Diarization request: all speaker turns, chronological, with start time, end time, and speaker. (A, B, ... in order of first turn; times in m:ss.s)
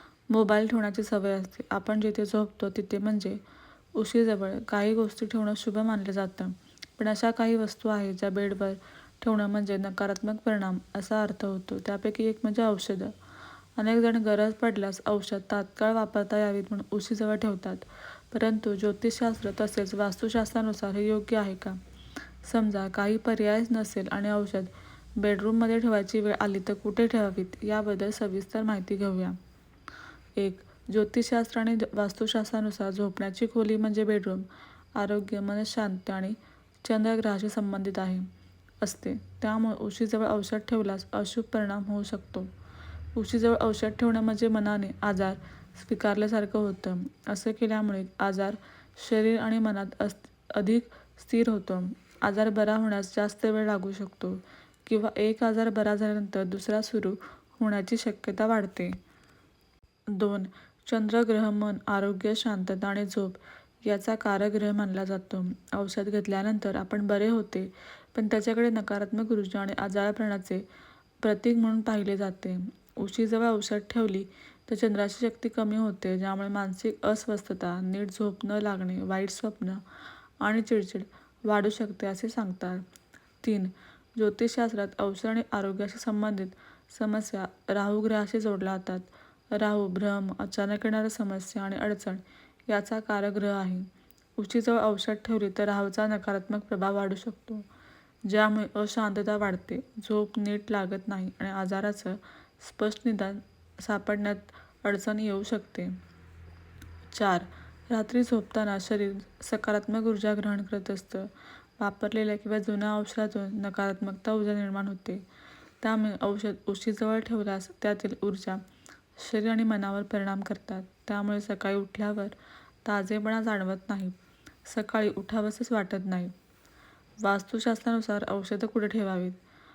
0:00.3-0:03.4 A
0:04.0-0:13.1 A
0:13.8-0:21.8 A
0:22.4-0:29.4 A
0:30.4-0:38.3 A
0:38.8-0:42.5 A
0:43.2-0:59.0 A
1:00.1-1:10.7 A
1:11.2-1:19.8 A
1:20.4-1:22.8 A
1:23.4-1:37.7 A
1:38.3-1:46.0 A
1:47.1-1:55.2 A
1:55.8-1:58.6 A
1:59.2-2:02.3 A
2:02.8-2:06.3 A
2:07.2-2:09.4 A